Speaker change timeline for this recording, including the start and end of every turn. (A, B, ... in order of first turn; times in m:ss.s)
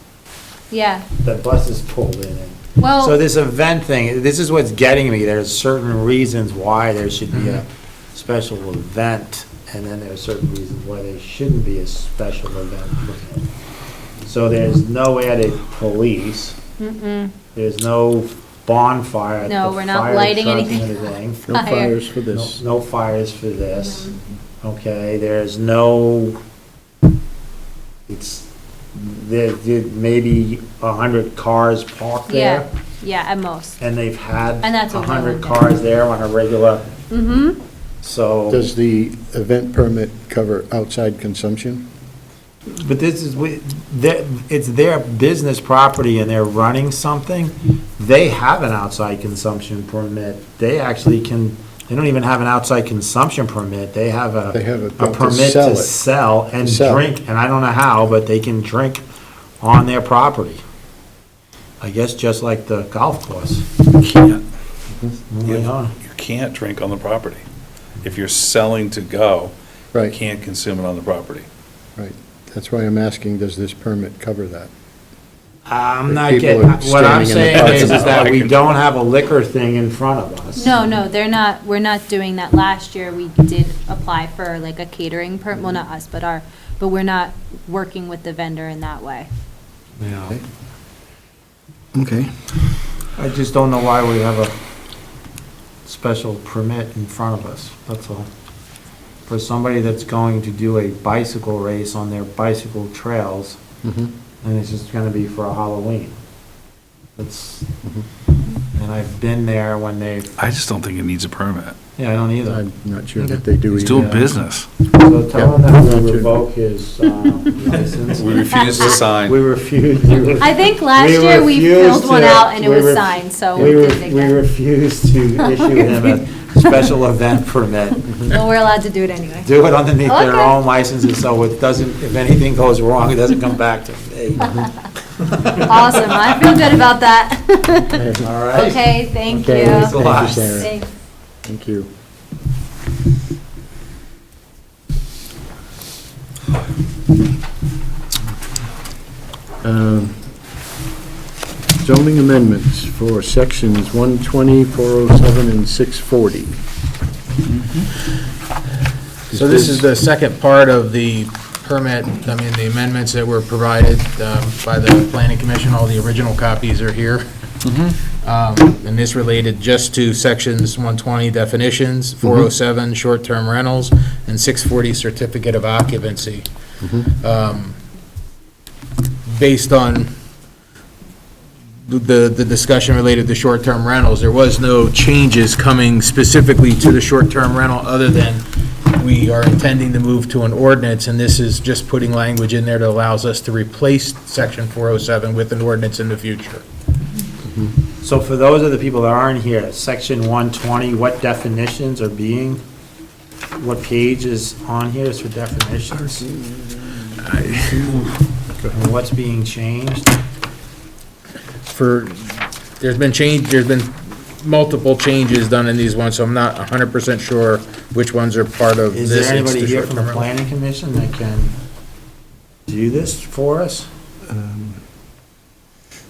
0:00.7-0:01.1 A
0:01.2-0:13.5 B
0:02.8-0:03.2 A
0:14.2-0:16.6 B
0:16.8-0:17.3 A
0:17.5-0:21.7 B
0:19.5-0:21.0 A
0:21.4-0:22.6 C
0:21.5-0:22.0 A
0:22.3-0:26.4 B
0:28.1-0:32.7 B
0:32.3-0:33.8 A
0:33.8-0:36.9 B
0:34.6-0:35.6 A
0:37.1-0:37.6 A
0:38.0-0:38.7 B
0:38.5-0:41.8 C
0:42.7-0:59.0 B
0:54.5-0:55.9 C
0:56.6-0:57.0 C
0:59.6-1:00.6 B
1:01.8-1:04.2 B
1:04.2-1:04.4 D
1:05.3-1:06.0 B
1:05.4-1:07.4 D
1:08.0-1:11.5 D
1:12.0-1:14.7 C
1:15.7-1:20.8 B
1:16.1-1:18.2 C
1:17.5-1:18.6 D
1:20.6-1:29.3 A
1:30.0-1:30.4 B
1:31.9-1:32.5 C
1:33.2-1:34.5 B
1:35.9-1:38.3 B
1:39.3-1:43.6 B
1:43.8-1:44.1 C
1:44.4-1:46.2 B
1:47.2-1:47.7 B
1:48.7-1:50.3 B
1:50.4-1:51.8 D
1:52.0-1:52.6 B
1:52.5-1:54.3 C
1:53.7-1:54.7 D
1:53.8-1:54.2 B
1:54.8-2:08.3 B
1:55.3-1:56.3 C
1:57.8-1:59.4 D
2:00.4-2:04.4 A
2:05.4-2:06.0 A
2:08.2-2:09.5 A
2:09.4-2:14.7 B
2:10.0-2:10.6 A
2:15.4-2:16.1 B
2:15.6-2:20.9 A
2:17.9-2:18.3 C
2:18.2-2:18.8 B
2:19.3-2:20.7 C
2:19.5-2:20.7 B
2:21.4-2:21.9 C
2:29.6-2:30.2 C
2:31.8-2:36.6 C
2:37.5-2:37.9 D
2:39.3-2:39.8 C
2:39.3-2:47.3 E
2:47.6-2:48.0 D
2:48.1-2:57.8 E
2:52.2-2:52.5 C
2:56.8-2:57.1 C
2:59.3-3:00.1 E
3:01.8-3:16.6 E
3:18.0-3:22.6 B
3:23.6-3:26.3 B
3:27.2-3:28.1 E
3:27.4-3:28.1 C
3:28.7-3:30.1 B
3:31.7-3:40.3 E
3:38.9-3:41.5 B
3:42.7-3:43.9 B
3:44.3-3:44.8 C